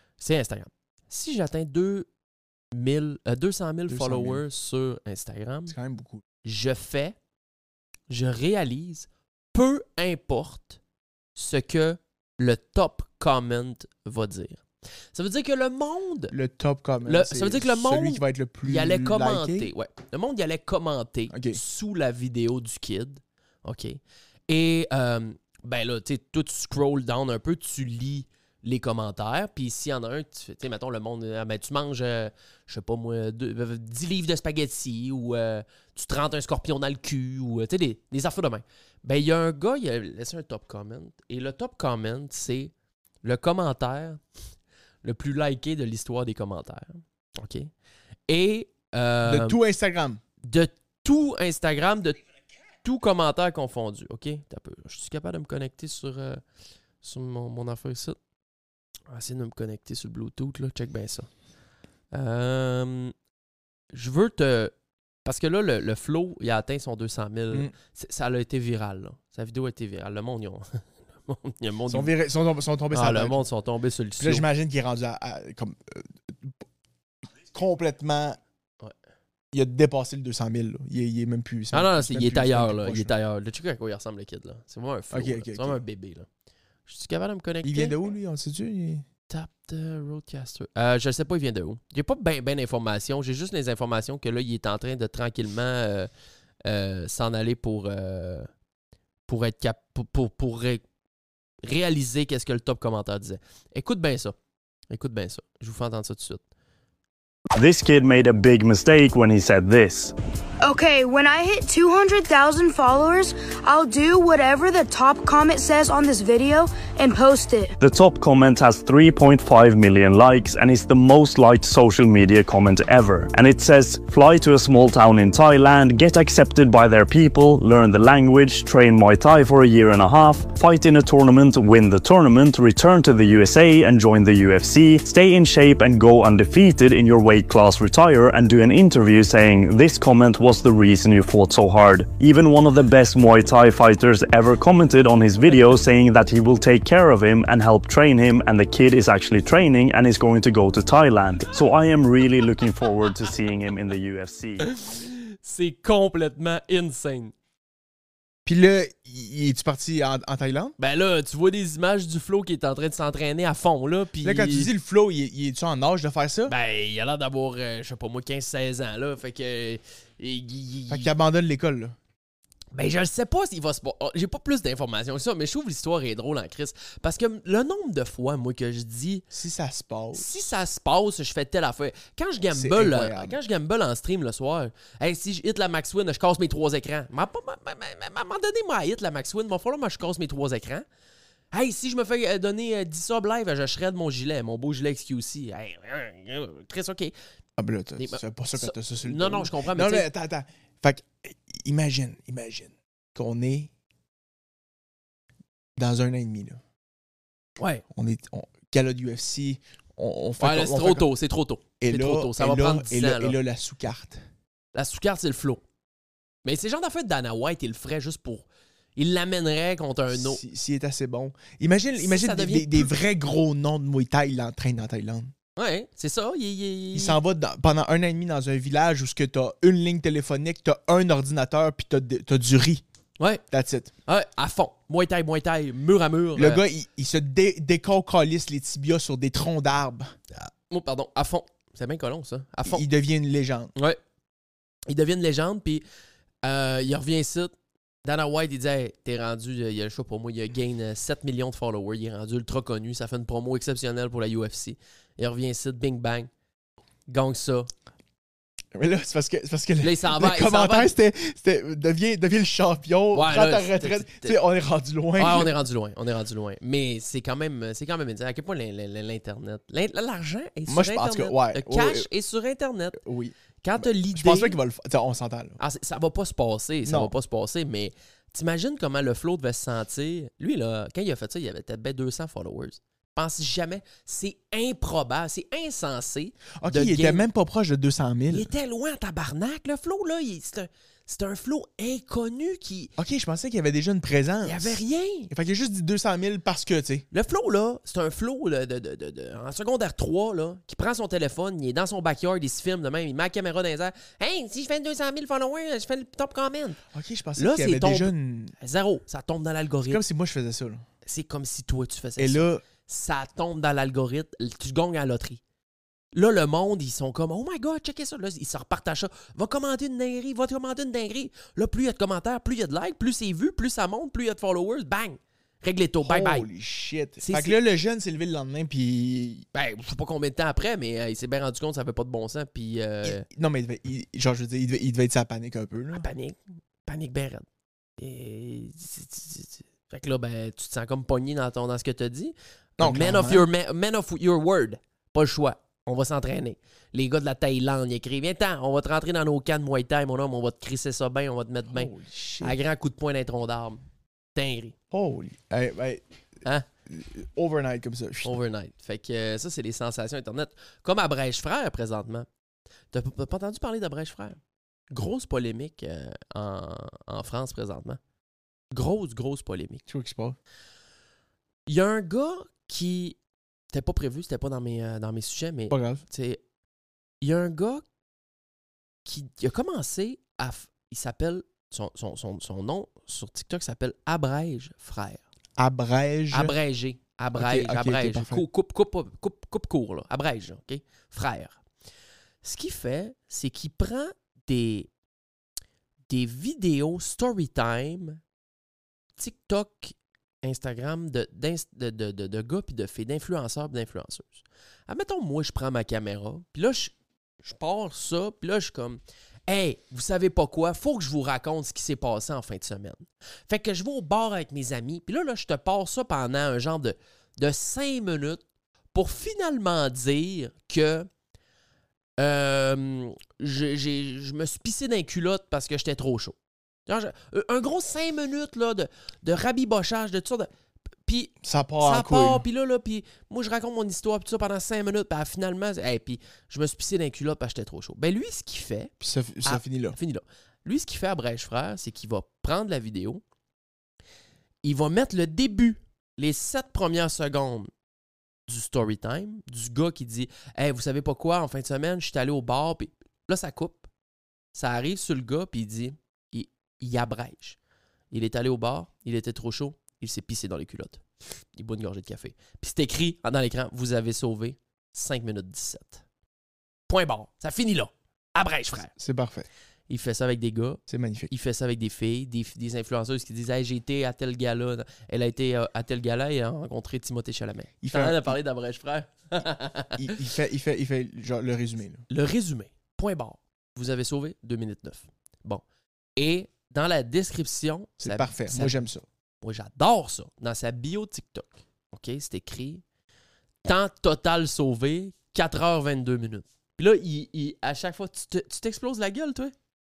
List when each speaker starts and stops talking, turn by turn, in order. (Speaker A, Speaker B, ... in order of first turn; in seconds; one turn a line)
Speaker A: 0.2-2.1
Speaker A: 2.7-5.8
Speaker B: 3.9-4.4
Speaker B: 5.7-6.2
Speaker A: 6.4-7.2
Speaker A: 8.1-10.8
Speaker A: 11.4-14.6
Speaker A: 15.1-16.3
Speaker B: 16.3-19.7
Speaker A: 17.1-42.7
Speaker B: 21.3-21.6
Speaker A: 43.2-44.2
Speaker A: 45.0-47.7
Speaker A: 48.3-49.6
Speaker B: 49.2-50.2
Speaker A: 50.4-52.2
Speaker A: 52.8-56.4
Speaker A: 57.0-58.2
Speaker A: 59.1-61.3
Speaker A: 62.1-63.1
Speaker A: 63.9-64.7
Speaker A: 65.2-72.1
Speaker B: 71.9-73.4
Speaker A: 72.9-74.5
Speaker B: 74.2-76.6
Speaker B: 77.5-78.4
Speaker B: 79.5-83.1
Speaker A: 81.7-86.3
Speaker B: 85.1-85.8
Speaker A: 86.9-88.0
Speaker B: 87.6-89.0
Speaker A: 89.3-96.1
Speaker A: 96.7-98.5
Speaker A: 99.3-100.8
Speaker A: 101.6-104.3
Speaker A: 104.9-106.4
Speaker C: 107.6-110.1
Speaker D: 110.6-117.8
Speaker C: 117.8-154.6
Speaker A: 154.6-157.3
Speaker B: 158.4-160.8
Speaker A: 160.8-164.7
Speaker B: 164.2-166.5
Speaker A: 166.5-171.1
Speaker B: 170.9-172.0
Speaker A: 172.7-179.2
Speaker B: 179.3-180.3
Speaker A: 180.1-190.8
Speaker B: 182.5-183.4
Speaker A: 191.5-197.1
Speaker B: 197.6-203.7
Speaker A: 198.0-200.1
Speaker B: 205.8-206.6
Speaker A: 207.6-207.8
Speaker B: 207.9-211.1
Speaker A: 210.4-213.4
Speaker B: 211.8-214.2
Speaker A: 214.7-215.6
Speaker A: 216.4-220.4
Speaker B: 220.1-225.3
Speaker A: 222.0-222.9
Speaker A: 225.6-227.2
Speaker B: 226.9-232.8
Speaker B: 233.5-233.9
Speaker A: 234.1-236.6
Speaker B: 236.3-240.1
Speaker A: 240.3-242.9
Speaker B: 242.7-243.7
Speaker A: 244.9-245.8
Speaker A: 246.4-247.5
Speaker A: 248.0-256.3
Speaker A: 257.1-257.7
Speaker B: 258.8-265.5
Speaker A: 259.8-260.9
Speaker A: 263.1-264.4
Speaker A: 265.2-273.0
Speaker B: 270.7-272.1
Speaker B: 273.0-275.6
Speaker A: 273.6-274.6
Speaker A: 275.6-287.2
Speaker B: 276.9-277.1
Speaker B: 286.6-288.5
Speaker A: 288.3-292.9
Speaker B: 293.0-297.1
Speaker A: 294.4-295.3
Speaker A: 297.1-306.8
Speaker B: 306.9-308.5
Speaker A: 307.4-310.0
Speaker B: 309.9-310.9
Speaker A: 311.1-315.4
Speaker B: 312.2-312.6
Speaker A: 316.1-326.5
Speaker B: 326.0-329.5
Speaker A: 327.2-327.6
Speaker A: 329.5-333.2
Speaker B: 333.0-336.1
Speaker A: 335.9-337.5
Speaker A: 338.0-353.8
Speaker B: 342.8-343.5
Speaker B: 351.7-352.6
Speaker A: 354.4-354.8
Speaker B: 354.9-356.0
Speaker B: 356.9-358.4
Speaker A: 358.2-362.3
Speaker A: 362.9-364.4
Speaker A: 364.9-368.0
Speaker A: 368.7-369.8
Speaker B: 369.9-370.4
Speaker A: 371.7-373.2
Speaker A: 373.7-376.4
Speaker B: 375.7-376.0
Speaker A: 377.2-377.8
Speaker A: 379.1-385.2
Speaker B: 385.6-386.6
Speaker A: 386.3-391.6
Speaker B: 387.4-388.4
Speaker A: 392.4-394.9
Speaker A: 396.1-398.2
Speaker A: 399.2-418.4
Speaker A: 418.9-421.1
Speaker A: 422.2-426.4
Speaker A: 426.9-430.5
Speaker A: 431.1-438.9
Speaker B: 431.4-432.4
Speaker B: 439.0-440.0
Speaker A: 439.4-443.2
Speaker A: 444.6-447.7
Speaker A: 448.5-453.9
Speaker A: 454.5-457.6
Speaker A: 458.1-461.0
Speaker A: 461.5-466.0
Speaker A: 466.9-468.9
Speaker B: 469.0-469.5
Speaker A: 469.9-480.1
Speaker B: 470.9-471.3
Speaker B: 477.8-478.4
Speaker B: 480.0-482.0
Speaker A: 482.1-485.6
Speaker A: 486.2-488.9
Speaker B: 488.0-489.1
Speaker A: 489.4-492.8
Speaker A: 493.6-499.5